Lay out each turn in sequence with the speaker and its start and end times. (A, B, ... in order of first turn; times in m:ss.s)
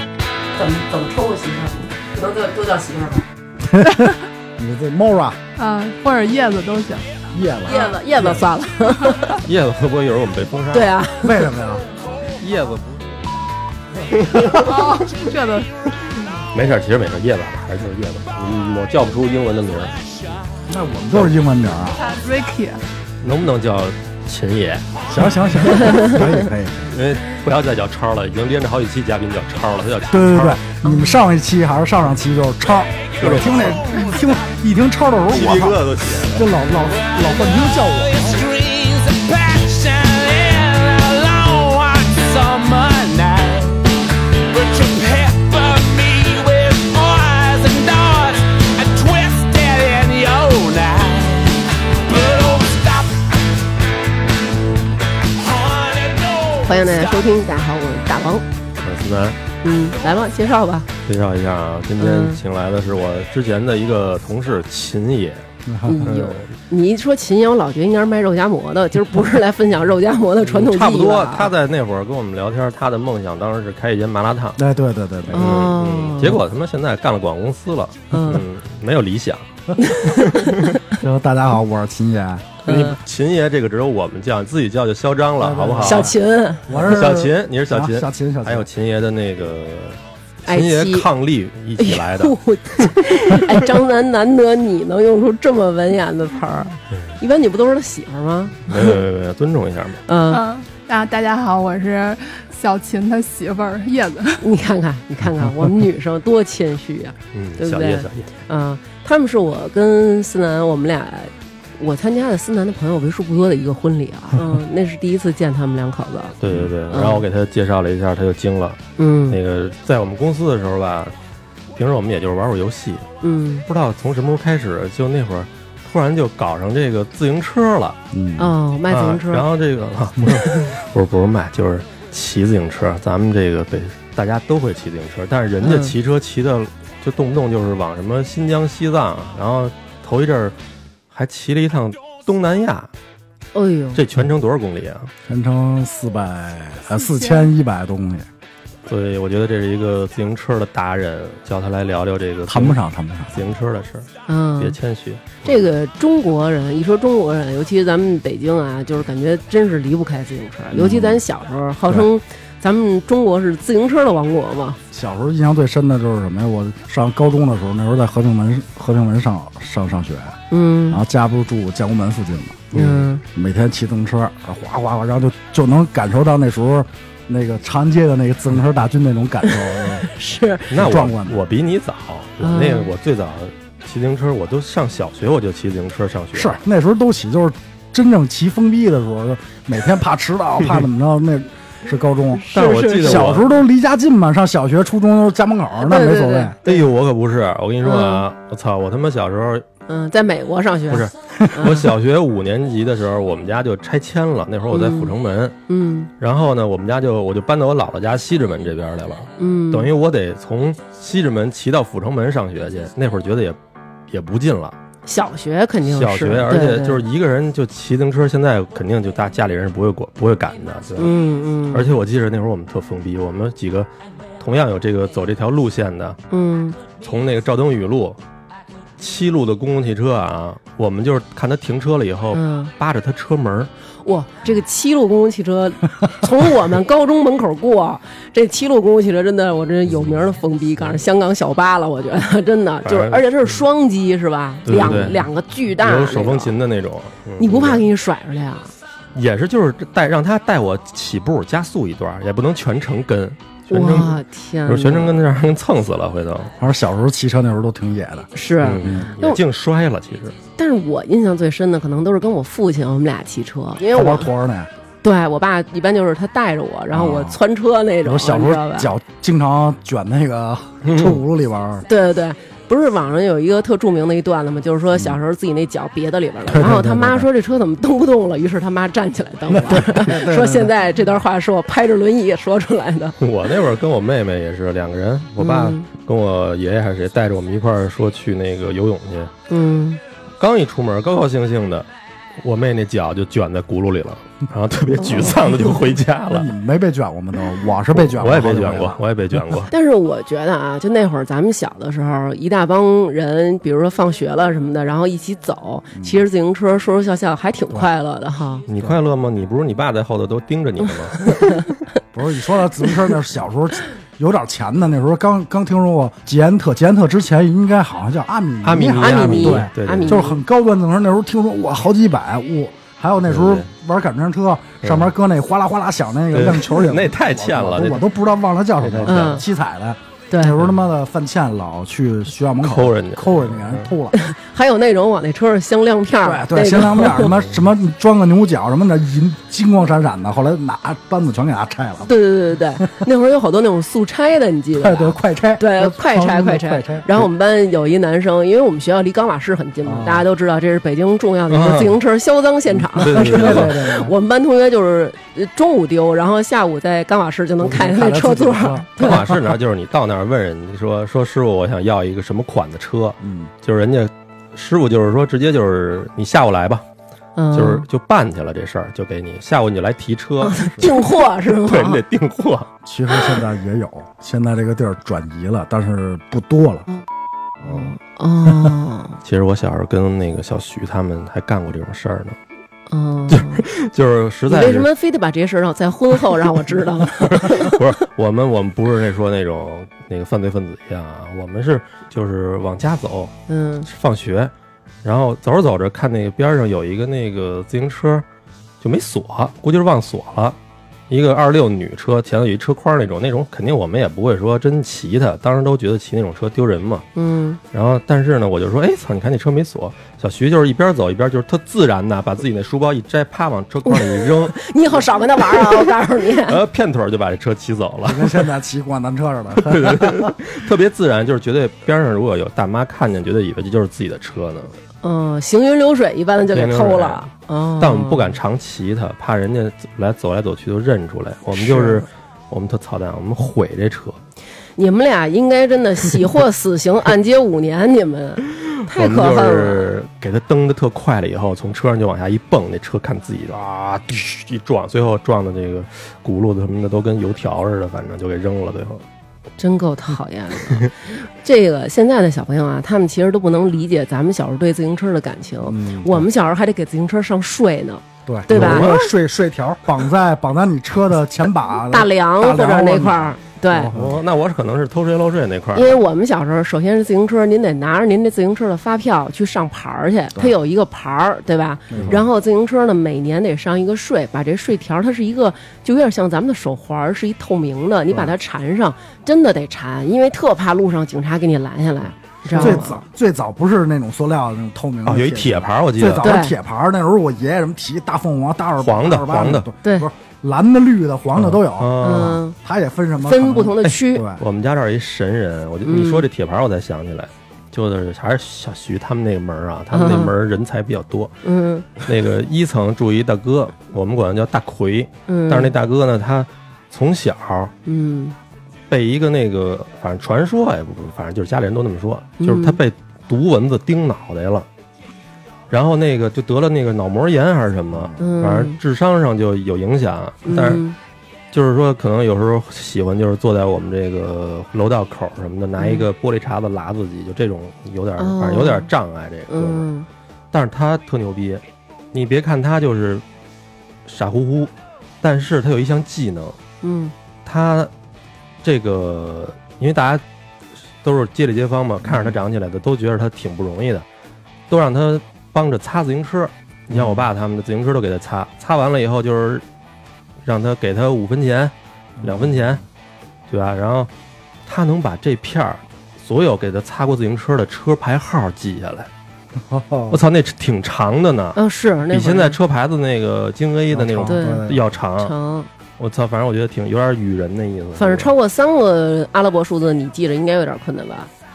0:00.6-0:03.2 A
0:03.6-0:05.4 B
0:05.6-0:07.2 C
0:07.3-0:07.9 B
0:07.7-0:09.4 A
0:09.0-0:09.3 C
0:09.4-0:11.0 D
0:10.7-0:11.4 A
0:11.2-0:11.8 B
0:12.4-0:13.0 D
0:14.1-0:14.9 D
0:14.5-0:16.4 C
0:16.5-0:19.9 D
0:20.7-0:22.0 B
0:21.9-0:22.8 C
0:23.2-0:24.8 D
0:25.1-0:26.9 B
0:25.6-0:26.3 D
0:26.9-0:30.7 D
0:30.1-0:38.4 B
0:30.8-0:31.2 A
0:33.2-0:33.9 D
0:33.9-0:34.2 E
0:35.3-0:36.5 D
0:36.9-0:43.9 E
0:44.5-0:53.2 E
0:55.4-0:57.3 E
0:56.6-0:58.4 A
0:58.8-0:59.4 D
0:59.6-1:00.9 A
1:01.1-1:05.5 D
1:02.0-1:02.4 A
1:05.7-1:06.0 B
1:05.8-1:11.5 A
1:06.0-1:06.5 D
1:10.4-1:14.6 D
1:14.6-1:15.7 B
1:15.3-1:19.5 D
1:15.3-1:16.4 A
1:18.1-1:18.4 A
1:19.8-1:20.5 A
1:20.9-1:22.5 B
1:22.6-1:23.0 A
1:22.7-1:26.1 D
1:25.4-1:26.1 B
1:25.8-1:27.3 A
1:26.7-1:28.7 B
1:26.7-1:33.1 D
1:30.5-1:31.1 A
1:31.8-1:39.0 A
1:38.7-1:40.0 D
1:40.1-1:40.4 A
1:40.3-1:44.4 C
1:44.4-1:56.4 A
1:47.3-1:48.3 D
1:56.4-2:01.1 D
1:56.9-1:57.2 A
1:59.0-1:59.4 A
2:01.8-2:03.1 D
2:03.2-2:03.7 A
2:03.7-2:08.0 D
2:08.1-2:08.5 B
2:08.4-2:09.4 A
2:08.9-2:20.6 D
2:15.6-2:15.9 A
2:21.1-2:22.9 D
2:23.5-2:24.0 A
2:24.0-2:25.1 D
2:25.3-2:28.3 B
2:27.0-2:27.5 C
2:28.9-2:32.8 D
2:32.5-2:33.5 B
2:33.3-2:35.7 D
2:34.3-2:34.8 A
2:35.4-2:44.8 A
2:40.7-2:41.2 B
2:44.9-2:50.4 B
2:50.5-2:51.0 A
2:50.9-2:52.7 B
2:52.7-2:53.1 D
2:52.7-2:53.2 A
2:53.3-3:00.1 B
2:59.5-3:00.7 A
3:00.7-3:06.6 D
3:00.7-3:01.5 B
3:02.4-3:02.9 A
3:06.3-3:12.5 B
3:12.3-3:13.4 A
3:12.5-3:13.5 D
3:13.0-3:16.6 B
3:15.8-3:16.9 A
3:16.6-3:19.7 D
3:17.8-3:18.2 A
3:19.9-3:21.9 A
3:20.9-3:25.6 D
3:24.7-3:25.1 A
3:25.7-3:26.1 A
3:26.2-3:33.6 D
3:29.4-3:29.9 A
3:34.1-3:34.8 D
3:35.1-3:37.0 A
3:35.8-3:41.2 D
3:41.0-3:41.9 A
3:41.7-3:46.2 D
3:46.3-3:46.8 A
3:47.0-3:48.2 D
3:49.0-3:53.7 D
3:52.3-3:52.7 A
3:54.0-4:06.5 A
3:59.9-4:00.3 D
4:02.8-4:03.6 D
4:04.7-4:07.9 D
4:07.4-4:08.7 A
4:09.1-4:16.5 D
4:13.7-4:15.2 A
4:16.6-4:19.1 B
4:18.4-4:19.4 A
4:18.6-4:20.4 D
4:20.6-4:24.3 A
4:23.9-4:24.7 B
4:25.0-4:28.9 A
4:26.9-4:27.4 B
4:28.0-4:31.8 B
4:30.8-4:31.2 D
4:31.9-4:43.2 A
4:34.9-4:35.2 B
4:36.5-4:37.3 B
4:39.5-4:40.7 B
4:43.2-4:49.3 D
4:45.4-4:45.8 A
4:49.5-4:50.0 A
4:50.4-4:51.9 D
4:52.4-4:56.5 D
4:55.0-4:55.4 A
4:56.3-4:59.0 B
4:57.9-4:59.7 D
4:59.7-5:08.6 A
5:05.9-5:06.2 B
5:08.7-5:11.6 D
5:11.3-5:11.6 A
5:12.1-5:34.2 B
5:18.6-5:20.3 D
5:18.9-5:20.4 A
5:23.3-5:23.7 D
5:24.8-5:25.1 D
5:26.3-5:28.1 D
5:28.8-5:29.4 D
5:29.1-5:29.4 A
5:30.3-5:30.6 A
5:32.6-5:33.9 D
5:34.1-5:37.3 A
5:36.2-5:42.1 B
5:37.1-5:37.6 D
5:42.0-5:59.2 A
5:44.7-5:47.3 B
5:49.8-5:50.2 B
5:51.5-5:52.0 D
5:53.0-5:53.8 D
5:53.0-5:54.1 B
5:57.6-5:59.4 B
5:59.0-6:06.8 D
6:03.2-6:03.5 B
6:07.4-6:07.8 A
6:07.5-6:12.7 D
6:10.4-6:12.0 A
6:12.8-6:16.9 B
6:17.6-6:19.2 A
6:19.2-6:22.4 D
6:22.9-6:23.6 A
6:23.3-6:24.9 D
6:24.5-6:27.8 A
6:27.2-6:33.3 D
6:33.5-6:33.9 A
6:33.9-6:34.5 D
6:35.0-6:38.2 D
6:38.8-6:40.6 D
6:41.1-6:47.1 D
6:47.2-6:47.6 A
6:47.7-6:54.7 D
6:53.9-6:56.6 A
6:55.4-6:58.5 D
6:58.0-7:00.3 B
6:59.6-7:04.7 D
7:05.0-7:08.4 A
7:06.5-7:07.3 D
7:07.8-7:14.2 D
7:11.6-7:12.0 A
7:14.8-7:19.9 A
7:18.9-7:29.0 D
7:29.6-7:39.1 A
7:35.7-7:36.2 B
7:38.3-7:43.4 B
7:38.5-7:39.0 D
7:41.9-7:43.9 A
7:43.7-7:46.0 D
7:45.7-8:03.0 A
7:51.9-7:52.2 B
8:02.5-8:02.8 D
8:02.6-8:14.4 B
8:05.0-8:06.3 D
8:06.2-8:06.6 A
8:08.8-8:09.7 D
8:11.4-8:12.4 D
8:12.0-8:12.6 A
8:13.2-8:14.2 A
8:14.4-8:21.4 D
8:15.8-8:16.2 A
8:19.9-8:20.3 A
8:21.4-8:21.9 A
8:22.0-8:27.7 D
8:25.3-8:25.7 A
8:27.8-8:28.4 A
8:28.9-8:34.7 D
8:32.4-8:32.8 A
8:35.7-8:40.8 D
8:38.2-8:38.8 A
8:40.5-8:41.0 A
8:41.5-8:49.9 D
8:45.8-8:46.1 A
8:48.2-8:48.9 A
8:49.5-8:50.1 A
8:50.5-8:51.6 D
8:52.1-8:53.2 D
8:54.1-8:54.7 D
8:55.2-8:56.6 D
8:56.8-8:57.1 A
8:57.4-8:57.9 D
8:58.6-9:00.2 D
9:01.0-9:04.0 D
9:04.7-9:09.6 D
9:06.9-9:07.2 B
9:10.4-9:12.8 D
9:12.2-9:12.8 B
9:13.5-9:14.1 D
9:14.7-9:19.1 D
9:19.6-9:20.2 B
9:20.1-9:25.3 D
9:21.6-9:22.6 A
9:23.9-9:24.9 B
9:24.3-9:25.7 A
9:26.0-9:28.3 D
9:28.0-9:31.3 A